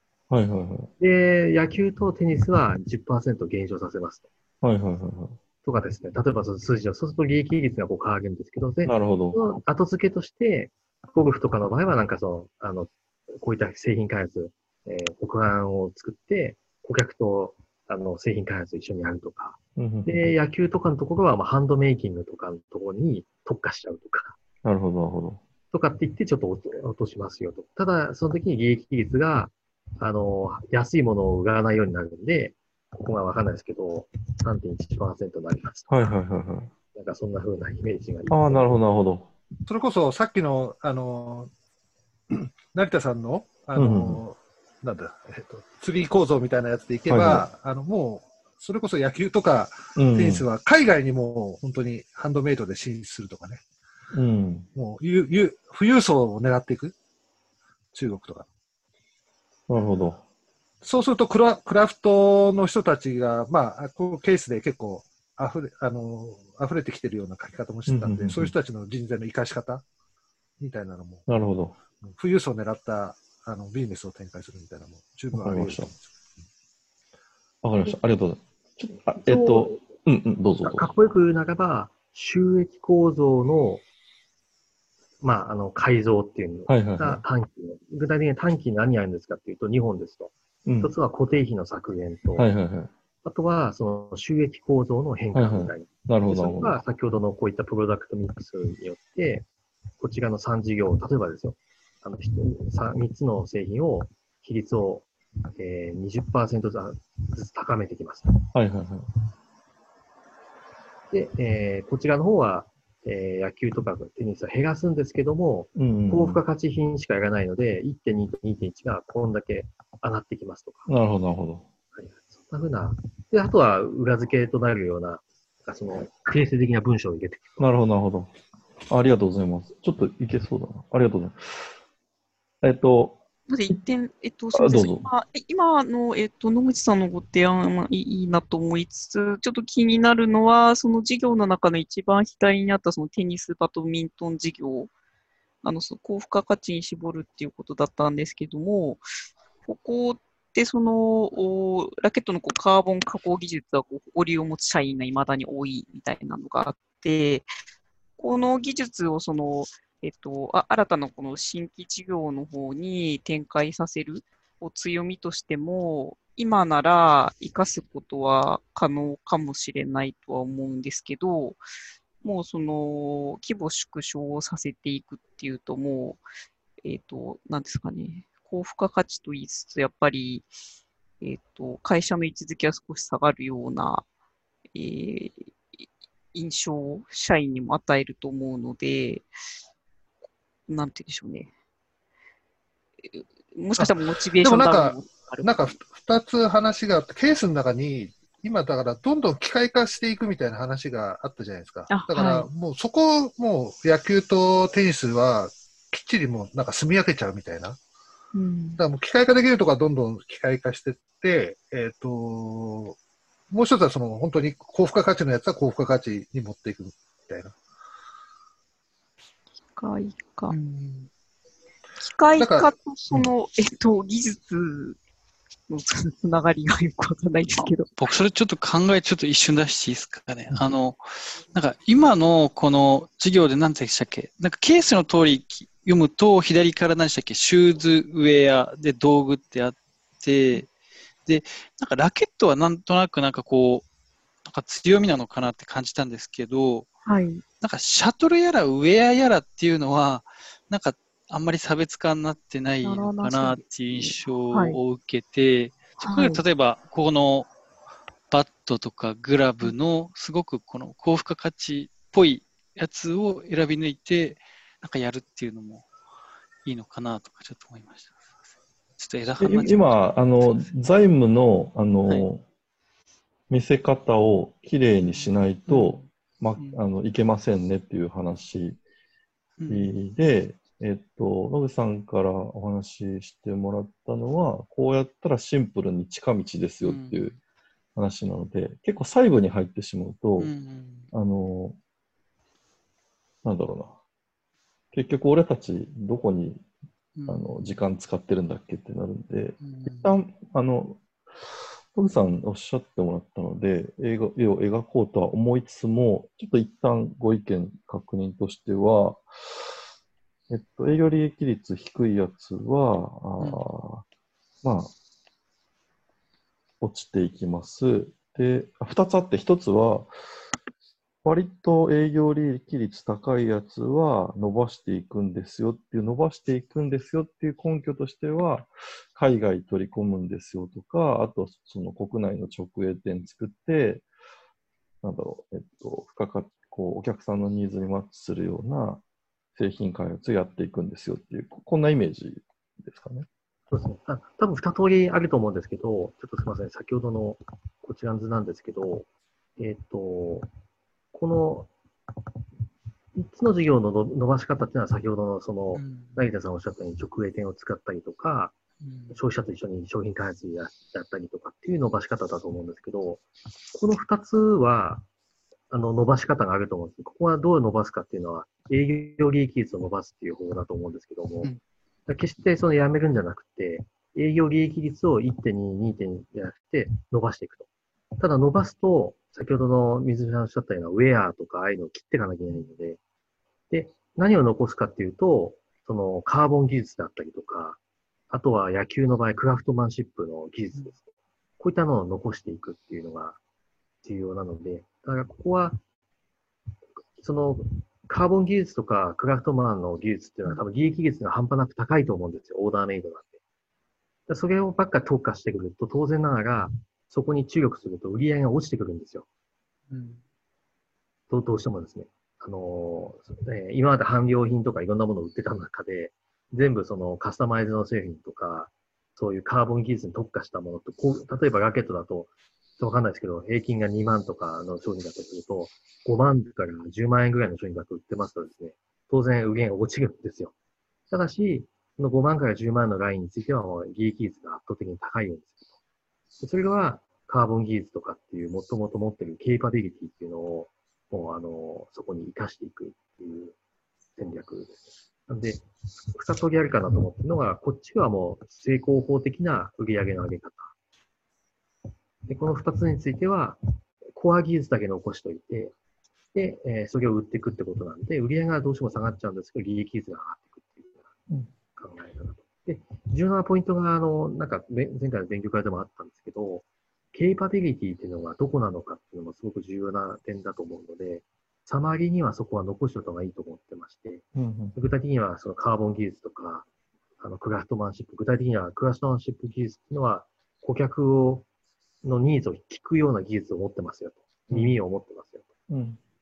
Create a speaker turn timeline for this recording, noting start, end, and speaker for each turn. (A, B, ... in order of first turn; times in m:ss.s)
0:00.3-0:00.9 A
0:01.0-0:04.3 B
0:04.6-0:05.4 A
0:05.6-0:24.4 B
0:08.8-0:09.4 A
0:19.8-0:20.3 A
0:24.6-0:25.4 A
0:25.7-0:36.1 B
0:35.9-0:36.7 A
0:36.9-0:38.8 B
0:38.3-0:39.3 A
0:39.7-0:41.5 C
0:42.3-0:53.6 C
0:43.8-0:44.2 A
0:47.1-0:47.5 A
0:50.0-0:50.4 A
0:54.1-0:54.7 A
0:54.7-0:57.0 C
0:57.9-0:58.5 C
0:59.7-1:00.2 A
1:00.8-1:09.8 C
1:07.9-1:08.5 A
1:10.6-1:11.3 C
1:11.3-1:11.8 A
1:12.0-1:16.1 C
1:15.3-1:15.9 A
1:17.6-1:20.9 A
1:19.2-1:19.8 B
1:20.6-1:23.8 B
1:25.2-1:32.5 B
1:26.7-1:27.2 A
1:30.6-1:30.9 A
1:32.4-1:32.9 A
1:33.2-1:39.5 B
1:35.3-1:36.8 A
1:40.0-1:48.5 B
1:48.5-1:49.1 A
1:51.1-2:00.9 B
1:55.8-1:56.4 A
2:00.9-2:01.6 A
2:01.9-2:07.7 B
2:07.6-2:08.3 A
2:08.9-2:11.7 A
2:12.6-2:13.8 A
2:13.5-2:24.9 D
2:14.5-2:15.1 A
2:25.6-2:29.0 D
2:29.6-2:37.5 D
2:38.2-2:51.6 D
2:52.2-2:56.2 D
2:56.8-3:00.5 D
3:01.2-3:04.0 D
3:04.7-3:05.5 D
3:06.3-3:09.3 D
3:10.7-3:11.5 D
3:13.1-3:15.8 D
3:13.8-3:27.8 C
3:21.9-3:22.5 D
3:28.3-3:28.8 D
3:28.8-3:33.0 C
3:33.5-3:37.6 C
3:39.7-3:40.5 D
3:40.5-3:41.1 E
3:42.0-3:45.0 D
3:42.4-3:42.7 C
3:45.7-3:48.1 D
3:48.0-4:00.7 E
4:01.2-4:03.9 E
4:04.4-4:06.9 E
4:07.0-4:07.4 D
4:07.6-4:17.5 E
4:12.8-4:14.8 D
4:16.0-4:16.4 D
4:18.3-4:25.9 E
4:26.6-4:28.4 E
4:29.0-4:30.7 E
4:29.4-4:32.4 A
4:33.5-4:38.8 A
4:35.6-4:36.8 E
4:39.6-4:40.0 E
4:39.7-4:47.3 A
4:46.8-4:47.3 E
4:47.9-4:50.5 A
4:50.4-4:51.1 E
4:51.1-4:51.8 A
4:53.4-4:54.0 A
4:54.9-4:56.6 A
4:57.2-4:57.5 E
4:57.3-5:01.0 A
4:59.6-5:00.1 E
5:01.9-5:09.3 A
5:10.5-5:14.0 A
5:14.6-5:14.9 A
5:16.8-5:20.1 A
5:21.2-5:34.0 A
5:35.0-5:39.0 A
5:39.6-5:43.3 A
5:43.7-5:50.5 B
5:51.1-5:52.2 B
5:53.1-5:58.6 B
5:55.7-5:56.2 E
5:58.8-5:59.2 E
5:59.1-6:05.1 B
6:05.7-6:11.5 B
6:12.1-6:17.6 B
6:18.2-6:23.0 B
6:23.7-6:27.8 B
6:28.3-6:31.0 B
6:31.6-6:33.4 B
6:34.0-6:35.8 B
6:37.2-6:43.4 B
6:44.3-6:49.2 B
6:49.9-6:50.2 E
6:51.3-7:10.5 B
7:11.1-7:15.6 B
7:16.4-7:23.6 B
7:24.2-7:30.7 B
7:32.3-7:33.6 B
7:34.1-7:35.7 B
7:36.3-7:41.1 B
7:41.7-7:56.7 B
7:54.3-7:54.7 A
7:57.2-8:01.4 B
8:02.0-8:05.5 B
8:04.5-8:04.8 A
8:05.7-8:06.0 A